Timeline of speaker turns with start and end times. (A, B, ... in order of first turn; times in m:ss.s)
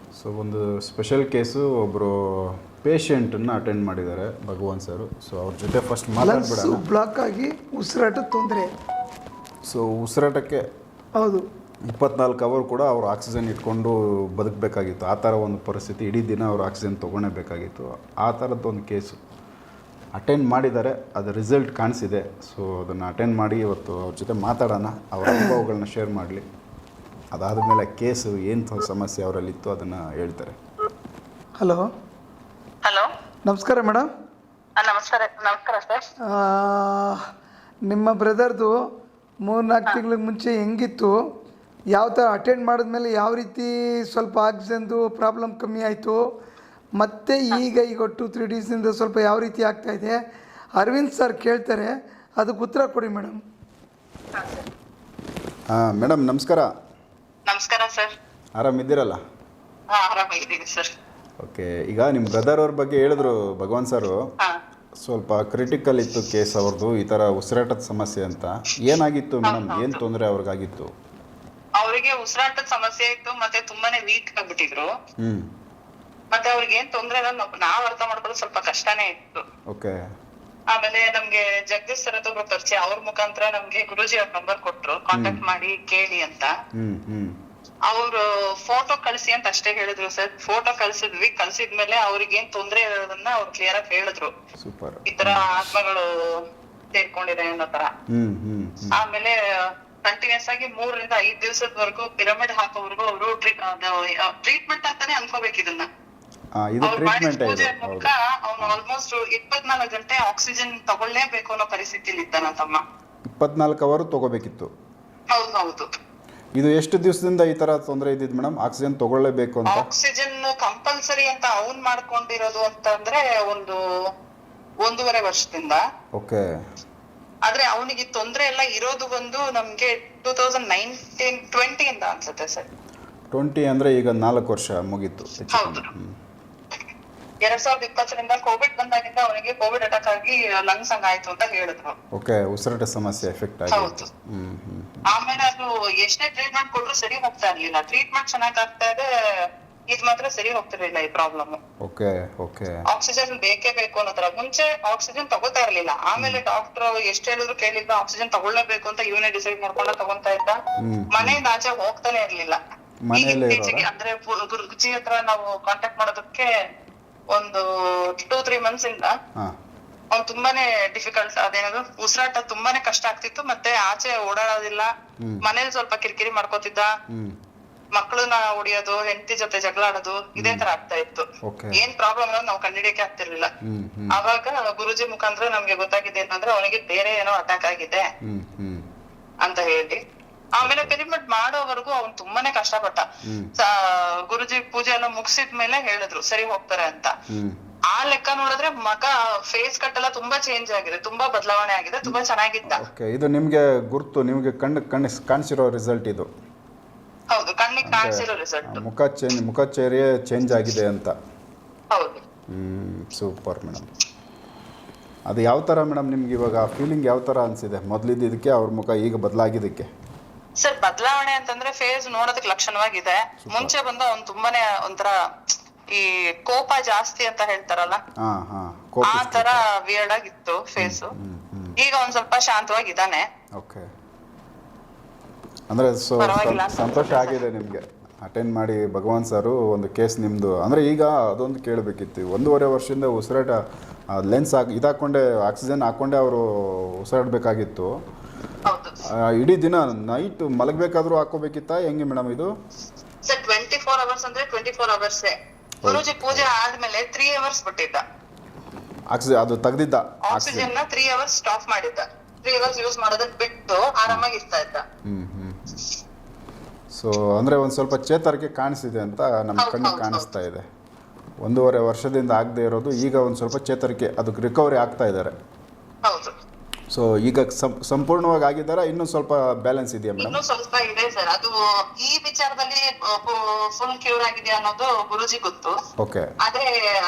0:00.2-0:06.8 A
0:06.2-0:08.7 B
0:09.7-0:10.7 A
0:11.2-0:11.4 B
0:11.9-0:19.2 A
0:20.1-0:26.4 A
0:27.3-0:30.5 A
0:31.6-0:31.8 B
0:33.4-0:34.1 B
0:34.8-0:36.0 C
0:36.3-0:37.2 B
0:37.9-0:38.7 B
0:39.4-0:41.1 B
0:41.9-0:46.2 B
0:47.0-0:50.2 B
0:50.8-0:53.4 B
0:54.3-0:54.7 C
0:55.7-0:56.7 A
0:57.5-0:58.1 C
0:58.6-0:59.2 A
0:59.9-1:00.9 C
1:01.4-1:04.2 A
1:05.0-1:10.9 A
1:09.4-1:10.0 C
1:11.8-1:14.9 C
1:15.2-1:15.5 A
1:16.3-1:19.4 C
1:19.7-1:20.0 A
1:20.7-1:26.5 C
1:25.1-1:25.4 A
1:26.8-1:27.4 A
1:27.9-1:34.3 C
1:34.6-1:35.4 A
1:35.1-1:37.9 C
1:38.1-1:39.0 A
1:38.9-1:39.4 C
1:40.0-1:45.9 C
1:46.6-1:48.8 A
1:46.8-1:52.8 C
1:53.3-1:54.7 A
1:55.3-1:55.9 C
1:56.6-1:59.9 A
1:59.6-2:03.8 C
2:04.8-2:05.8 C
2:06.2-2:06.4 A
2:07.4-2:12.7 C
2:13.3-2:16.1 A
2:15.5-2:15.9 C
2:17.4-2:21.9 C
2:22.1-2:25.0 A
2:23.7-2:24.1 C
2:25.1-2:29.1 C
2:29.9-2:31.6 C
2:31.8-2:32.8 A
2:32.9-2:40.6 C
2:40.8-2:41.4 A
2:41.1-2:42.6 C
2:43.0-2:43.9 A
2:43.1-2:46.5 C
2:47.3-2:49.1 C
2:50.1-2:54.9 C
2:55.4-2:56.9 C
2:57.1-2:57.4 A
2:57.9-3:03.5 C
3:00.4-3:00.6 A
3:01.4-3:01.8 A
3:03.6-3:04.2 A
3:04.1-3:08.0 C
3:08.2-3:08.8 A
3:09.4-3:10.0 C
3:10.6-3:13.0 C
3:10.6-3:10.9 A
3:13.2-3:13.5 A
3:13.6-3:17.1 C
3:17.3-3:17.6 A
3:17.9-3:22.8 C
3:22.6-3:26.3 A
3:27.3-3:28.8 C
3:27.8-3:31.1 A
3:31.9-3:32.2 C
3:32.5-3:33.9 A
3:35.3-3:39.9 A
3:40.6-3:45.1 C
3:43.4-3:43.7 A
3:45.9-3:48.0 C
3:48.2-3:49.6 A
3:49.1-3:51.1 C
3:50.8-3:51.8 A
3:51.8-3:53.2 C
3:53.6-3:53.9 A
3:55.7-4:03.6 A
3:56.2-3:57.4 C
4:04.1-4:07.9 A
4:08.7-4:09.0 C
4:09.1-4:12.5 A
4:13.2-4:18.0 C
4:15.8-4:16.5 A
4:19.1-4:20.7 A
4:20.3-4:24.8 C
4:25.0-4:25.7 A
4:26.9-4:30.6 A
4:29.6-4:30.3 C
4:31.4-4:35.3 A
4:36.0-4:36.3 C
4:36.9-4:40.4 A
4:40.2-4:45.7 C
4:46.0-4:46.3 A
4:46.4-4:46.7 C